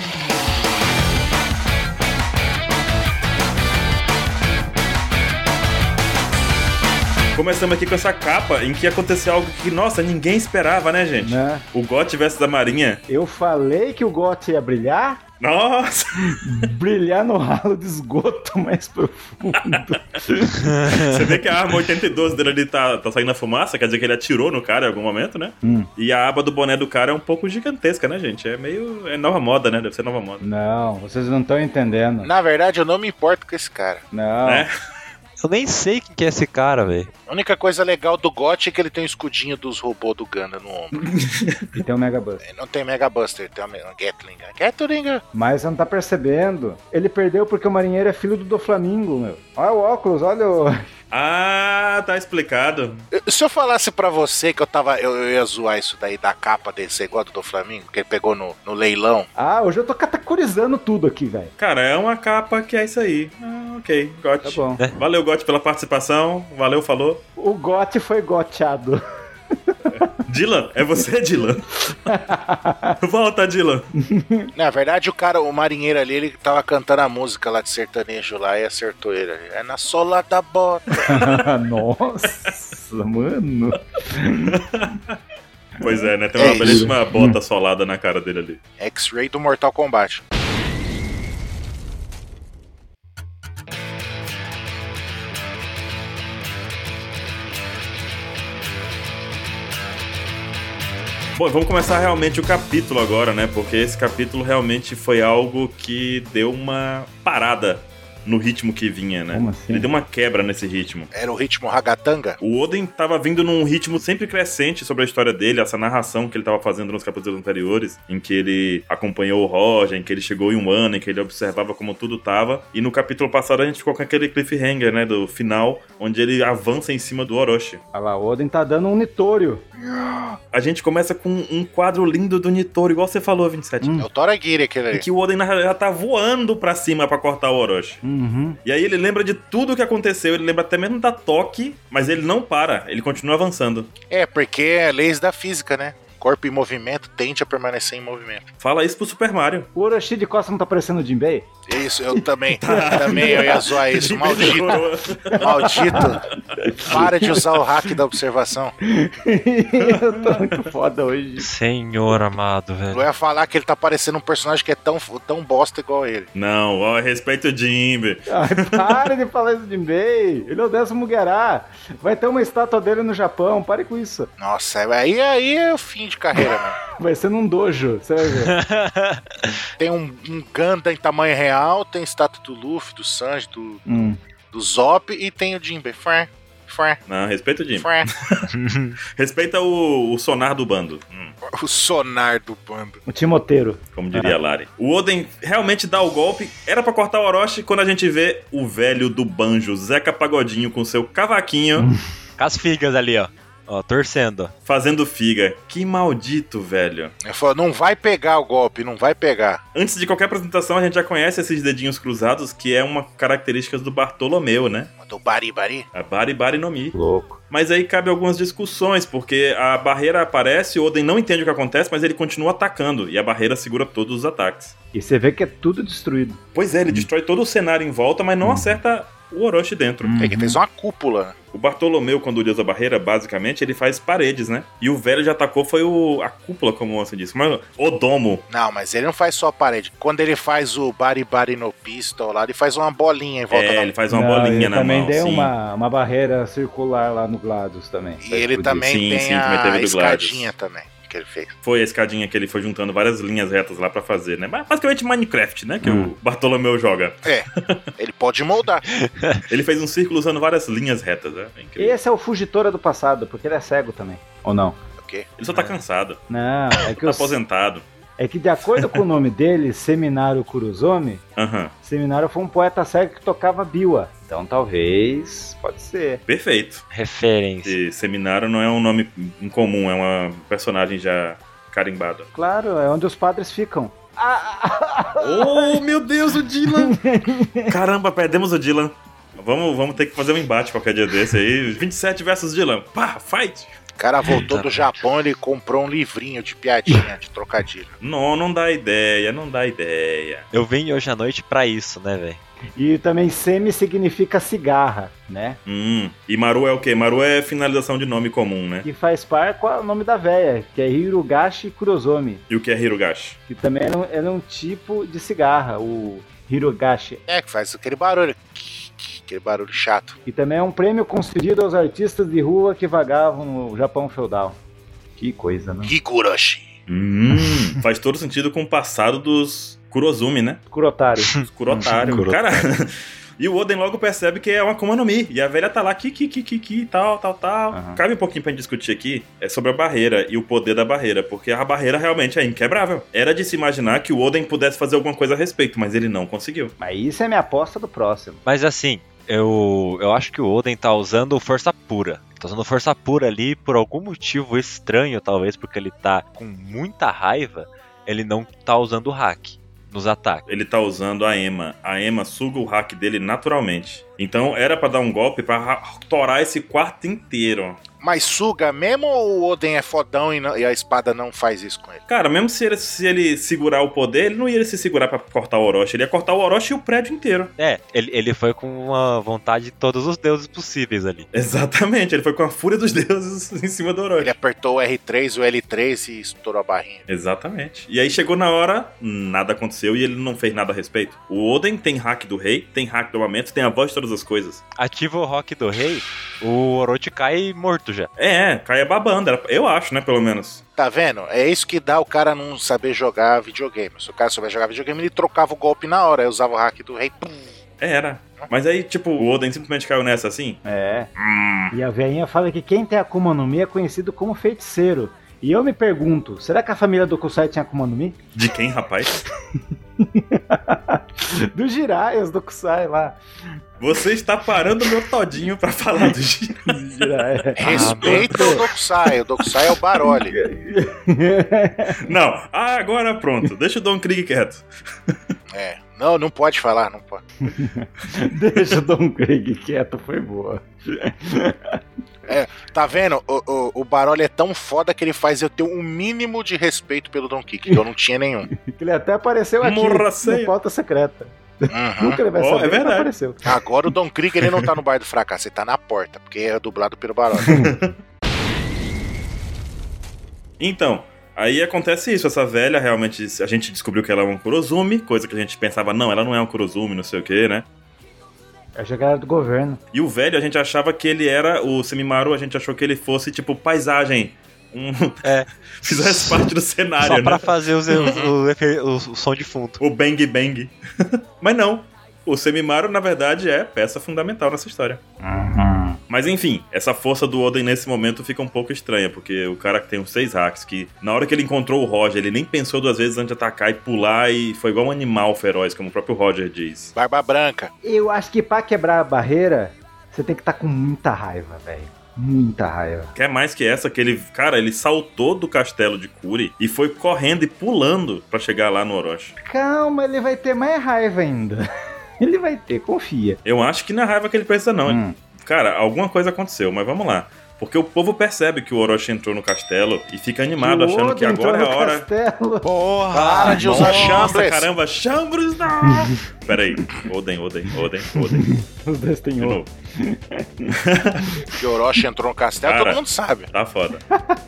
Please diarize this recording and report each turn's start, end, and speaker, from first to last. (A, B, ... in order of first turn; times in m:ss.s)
0:07.3-0:13.0 A
0:11.2-0:11.6 B
0:13.1-0:15.2 B
0:15.4-0:16.4 A
0:16.2-0:20.8 B
0:20.6-0:21.2 C
0:20.8-0:30.4 A
0:25.6-0:25.9 B
0:30.4-0:32.3 B
0:32.2-0:34.0 D
0:34.1-0:34.7 B
0:34.4-0:34.7 A
0:35.4-0:37.1 C
0:37.3-0:41.0 D
0:40.9-0:41.8 A
0:41.7-0:42.4 B
0:42.4-0:45.2 D
0:45.3-0:50.8 B
0:51.1-0:53.0 A
0:53.1-0:59.3 D
0:59.4-1:01.5 B
1:01.6-1:07.2 A
1:04.4-1:04.8 B
1:07.4-1:09.0 B
1:09.7-1:10.1 B
1:10.2-1:11.7 A
1:12.0-1:13.0 B
1:13.0-1:13.9 A
1:14.0-1:14.5 B
1:14.5-1:21.2 D
1:21.0-1:24.5 B
1:24.5-1:25.2 A
1:25.8-1:27.4 B
1:25.8-1:28.6 A
1:26.4-1:26.9 D
1:28.8-1:30.2 D
1:41.3-1:51.1 A
1:49.3-1:49.9 B
1:51.1-1:52.4 D
1:52.4-2:07.8 A
2:07.9-2:10.4 B
2:10.5-2:14.0 A
2:13.8-2:14.1 B
2:14.0-2:15.0 D
2:14.9-2:18.0 A
2:18.0-2:18.6 B
2:18.6-2:23.9 A
2:24.1-2:28.4 D
2:28.6-2:29.7 A
2:29.7-2:31.5 B
2:31.7-2:34.8 D
2:32.6-2:36.1 A
2:32.7-2:33.7 B
2:34.2-2:37.4 B
2:35.4-2:36.2 D
2:36.8-2:38.7 D
2:36.9-2:37.3 A
2:38.8-2:41.5 B
2:39.8-2:40.6 A
2:41.4-2:43.0 C
2:42.9-2:46.3 D
2:46.3-2:49.1 A
2:48.3-2:54.3 B
2:54.4-2:56.8 D
2:57.0-2:58.6 B
2:58.4-2:59.5 C
2:59.8-3:03.9 D
3:03.8-3:04.2 B
3:04.5-3:07.0 D
3:07.1-3:08.5 A
3:07.7-3:08.1 D
3:08.5-3:09.0 C
3:09.1-3:11.3 A
3:11.4-3:13.0 D
3:13.1-3:14.4 B
3:13.9-3:21.9 A
3:22.4-3:24.5 C
3:24.6-3:27.1 A
3:27.2-3:29.6 D
3:29.7-3:34.9 A
3:35.0-3:35.9 D
3:35.9-3:36.9 A
3:36.9-3:37.4 B
3:37.5-3:44.7 A
3:44.9-3:47.1 B
3:46.5-3:50.3 A
3:48.4-3:48.8 B
3:50.0-3:50.6 B
3:50.2-3:51.3 D
3:51.5-3:58.4 A
3:58.5-4:03.9 D
4:03.5-4:05.5 A
4:04.1-4:08.9 B
4:08.2-4:11.6 D
4:08.8-4:10.5 A
4:11.6-4:17.8 A
4:15.8-4:16.1 B
4:17.2-4:18.8 D
4:19.0-4:19.4 C
4:19.5-4:22.0 A
4:21.8-4:24.8 B
4:25.0-4:25.3 D
4:25.4-4:26.2 A
4:25.5-4:25.8 B
4:26.3-4:27.4 B
4:27.0-4:27.8 A
4:28.2-4:31.2 B
4:31.4-4:31.7 A
4:31.8-4:36.2 B
4:36.3-4:36.8 A
4:36.9-4:37.8 C
4:37.6-4:42.3 A
4:42.3-4:45.8 B
4:45.2-4:47.0 A
4:46.7-4:47.7 B
4:47.7-4:53.7 A
4:54.0-4:57.9 D
4:54.4-4:55.1 C
4:58.0-5:00.4 A
5:00.5-5:02.4 C
5:02.8-5:05.6 B
5:05.6-5:08.8 A
5:08.8-5:12.4 B
5:12.5-5:13.4 A
5:13.5-5:17.2 B
5:17.3-5:20.2 D
5:20.2-5:24.6 B
5:25.2-5:25.9 B
5:25.8-5:26.7 D
5:26.9-5:30.6 A
5:30.7-5:32.3 B
5:31.4-5:46.7 A
5:31.8-5:32.6 C
5:37.7-5:38.0 B
5:46.8-5:48.4 B
5:48.4-6:00.4 C
6:00.4-6:07.8 A
6:08.0-6:12.0 D
6:12.1-6:17.5 A
6:17.6-6:21.3 C
6:21.3-6:24.3 A
6:24.2-6:27.0 D
6:27.1-6:34.6 A
6:34.8-6:38.1 C
6:38.2-6:40.6 A
6:40.8-6:47.5 D
6:47.8-6:50.6 A
6:50.6-6:51.1 B
6:51.2-6:51.7 A
6:51.7-6:58.2 B
6:58.3-6:59.2 A
7:00.0-7:03.2 B
7:03.8-7:07.1 A
7:06.6-7:08.7 B
7:07.6-7:10.3 D
7:07.6-7:08.4 C
7:10.0-7:12.0 B
7:12.0-7:15.3 A
7:15.5-7:17.2 D
7:17.4-7:21.8 B
7:22.3-7:28.5 D
7:28.6-7:33.5 B
7:29.6-7:30.5 A
7:31.7-7:32.2 D
7:32.4-7:33.1 A
7:33.4-7:37.6 D
7:37.4-7:37.9 A
7:37.4-7:37.7 B
7:40.6-7:47.6 A
7:48.7-7:49.8 B
7:49.9-7:55.2 A
7:55.2-7:59.8 C
7:55.8-7:58.2 A
7:57.9-7:58.3 D
7:59.8-8:05.0 A
8:05.2-8:06.0 B
8:06.1-8:16.9 A
8:17.0-8:17.7 D
8:17.8-8:23.1 B
8:23.1-8:29.3 A
8:29.4-8:31.6 B
8:32.2-8:33.4 B
8:33.4-8:42.1 A
8:34.8-8:35.2 B
8:40.6-8:44.0 B
8:42.6-8:44.3 C
8:43.4-8:44.7 D
8:43.7-8:48.5 A
8:48.2-8:50.7 B
8:49.4-8:49.7 A
8:50.7-8:51.2 A
8:51.6-8:53.5 D
8:52.6-8:54.0 A